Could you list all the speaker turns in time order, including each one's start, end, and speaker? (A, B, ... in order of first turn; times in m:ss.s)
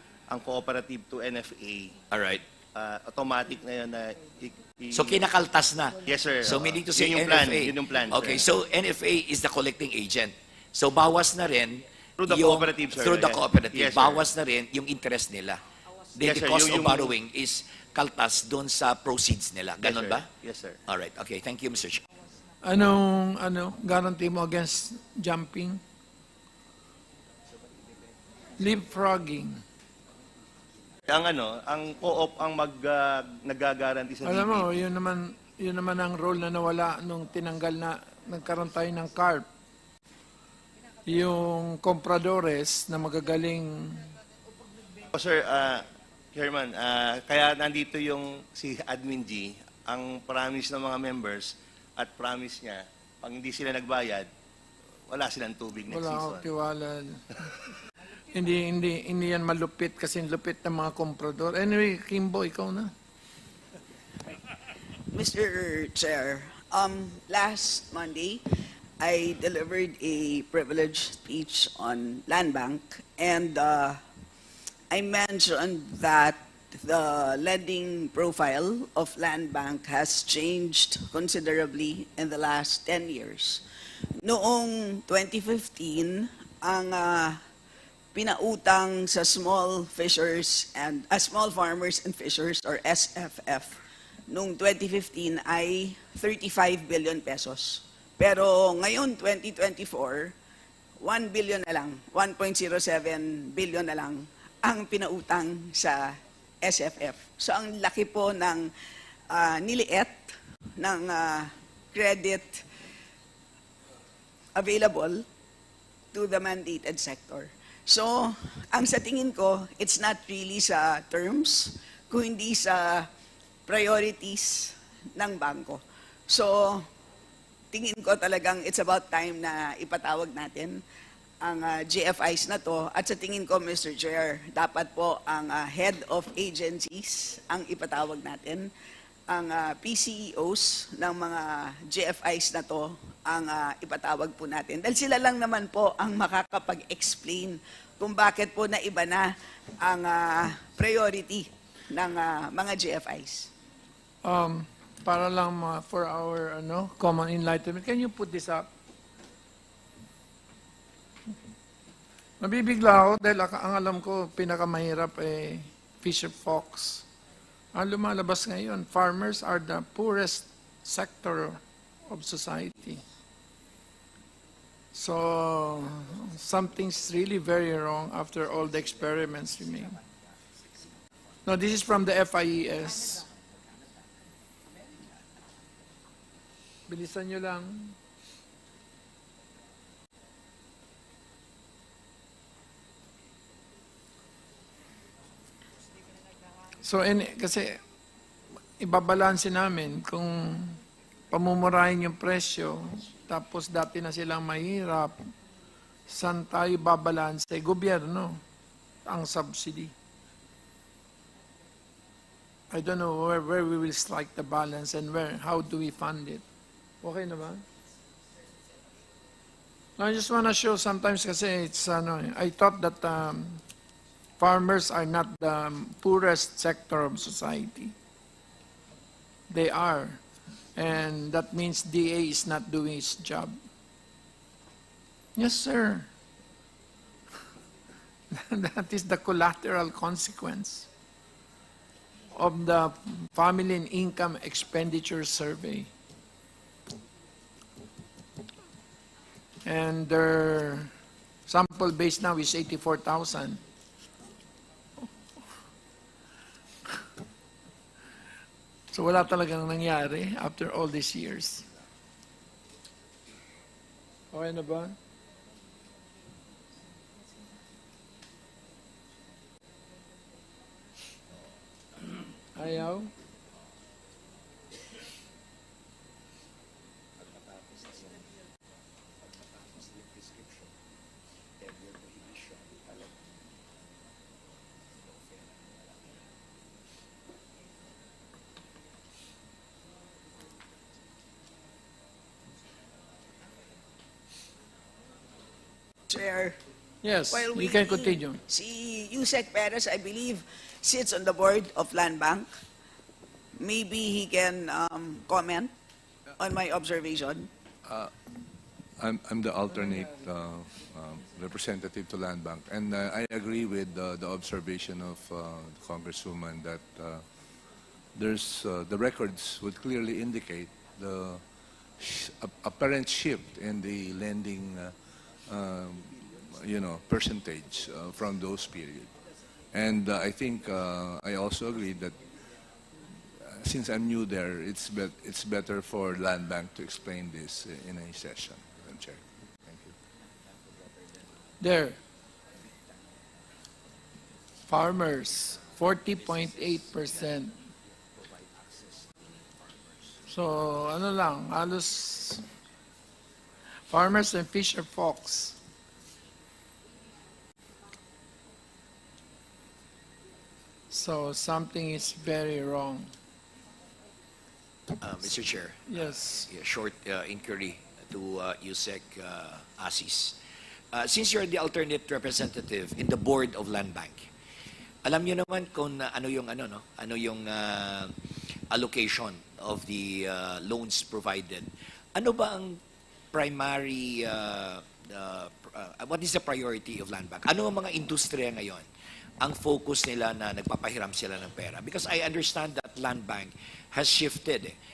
0:00.3-0:02.0 A
0:02.1-0:02.4 B
0:02.8-0:05.2 A
0:04.9-0:15.6 B
0:06.0-0:08.4 A
0:12.2-0:14.3 A
0:16.2-0:20.3 B
0:16.2-0:17.1 A
0:19.8-0:20.8 A
0:20.9-0:22.0 B
0:22.6-0:25.8 C
0:28.6-0:29.6 C
0:31.1-0:34.7 A
0:34.2-0:39.5 C
0:41.1-0:44.1 C
0:45.1-0:54.3 A
0:55.1-0:56.5 A
0:55.9-0:57.6 C
0:58.3-1:02.9 C
1:05.1-1:08.4 D
1:09.0-1:14.0 D
1:14.9-1:23.6 D
1:24.2-1:27.4 D
1:28.1-1:40.3 D
1:41.0-1:48.7 D
1:49.3-1:52.6 D
1:54.6-1:55.2 D
1:56.1-2:03.1 D
2:03.7-2:06.8 D
2:07.7-2:10.8 D
2:11.4-2:18.7 D
2:19.3-2:33.5 D
2:34.2-2:38.7 C
2:42.4-2:47.1 C
2:47.8-2:53.0 C
2:55.0-3:00.0 C
3:01.5-3:03.3 C
3:06.9-3:08.0 C
3:16.8-3:17.8 C
3:18.8-3:20.8 C
3:21.3-3:25.2 C
3:26.1-3:28.4 C
3:29.1-3:29.9 C
3:32.7-3:36.4 C
3:37.0-3:37.6 C
3:40.0-3:43.6 C
3:44.4-3:47.9 C
3:49.5-3:50.2 C
3:50.8-3:53.6 C
3:55.4-3:56.1 C
3:58.3-4:00.9 C
4:02.4-4:05.9 C
4:09.7-4:10.9 C
4:11.5-4:13.6 C
4:18.9-4:21.7 C
4:24.3-4:25.0 C
4:32.6-4:33.1 C
4:56.1-4:56.6 D
4:57.0-4:58.4 C
4:57.3-5:02.5 D
5:03.6-5:05.7 D
5:06.4-5:07.5 D
5:07.8-5:08.1 E
5:09.0-5:17.5 E
5:18.1-5:29.1 E
5:29.7-5:32.2 E
5:33.4-5:40.0 E
5:41.6-5:42.0 C
5:44.7-5:47.6 C
5:50.3-5:52.4 C
5:53.9-5:55.6 C
6:00.9-6:03.1 C
6:05.0-6:10.4 B
6:05.9-6:06.5 C
6:10.9-6:14.3 B
6:15.0-6:18.1 B
6:18.7-6:22.8 B
6:23.3-6:28.9 B
6:29.4-6:34.8 B